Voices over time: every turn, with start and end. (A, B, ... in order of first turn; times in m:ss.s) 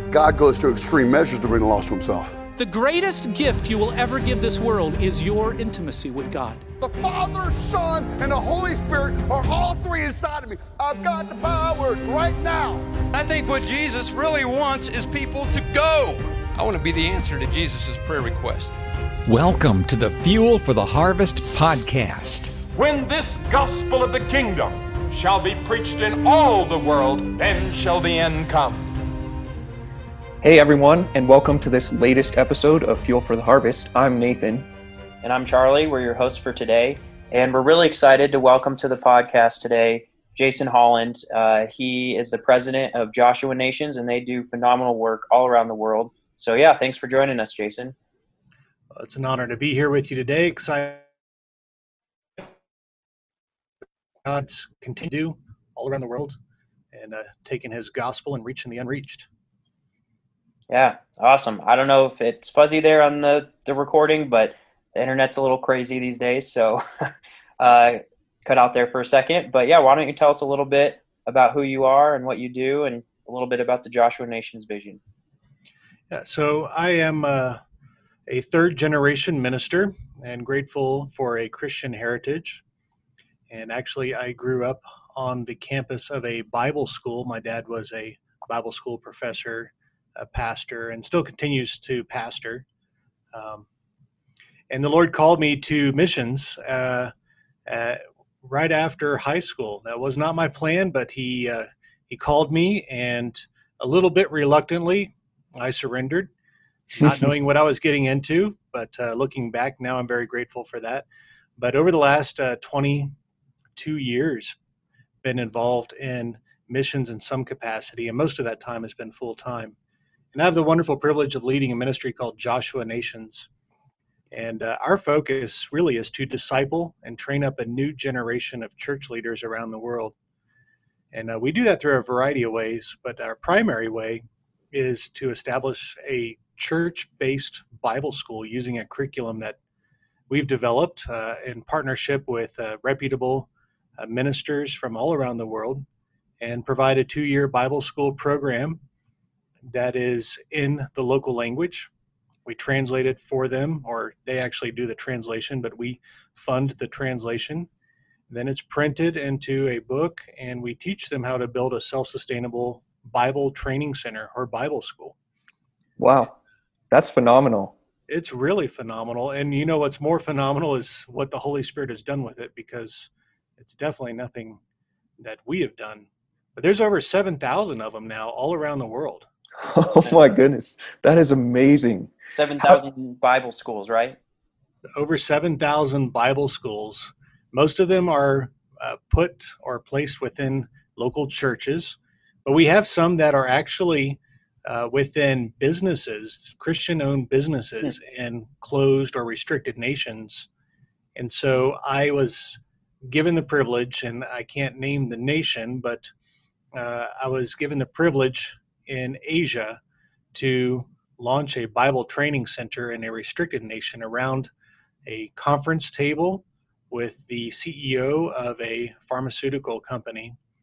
0:00.1-0:02.4 A
0:02.6-0:06.6 B
0:06.8-0:12.9 A
0:13.1-0:18.8 C
0:19.3-0:22.6 D
0:22.7-0:28.9 E
0:30.4-0:34.7 F
0:35.2-0:48.0 G
0:49.0-0:51.0 H
0:54.2-0:56.4 H
0:56.9-0:59.3 H
1:00.7-1:07.1 G
1:07.6-1:15.0 G
1:16.1-1:17.6 H
1:18.3-1:22.6 H
1:23.5-1:32.6 H
1:33.3-1:33.7 H
1:34.7-1:37.1 H
1:37.7-1:46.3 H
1:46.9-1:51.1 H
1:47.0-1:47.4 F
1:51.6-1:53.1 H
1:53.8-1:54.6 H
1:55.2-1:59.8 H
2:00.3-2:03.5 H
2:04.3-2:10.2 H
2:11.1-2:19.6 H
2:20.3-2:25.8 H
2:26.4-2:28.8 H
2:29.7-2:31.9 H
2:32.5-2:37.7 H
2:38.3-2:45.2 H
2:46.0-2:46.4 F
2:46.9-2:47.8 F
2:48.1-2:54.6 H
2:55.2-2:59.3 H
2:59.6-3:02.8 F
3:02.3-3:04.2 G
3:05.0-3:20.5 H
3:21.2-3:26.1 H
3:26.8-3:29.8 H
3:30.3-3:34.5 H
3:35.1-3:40.4 H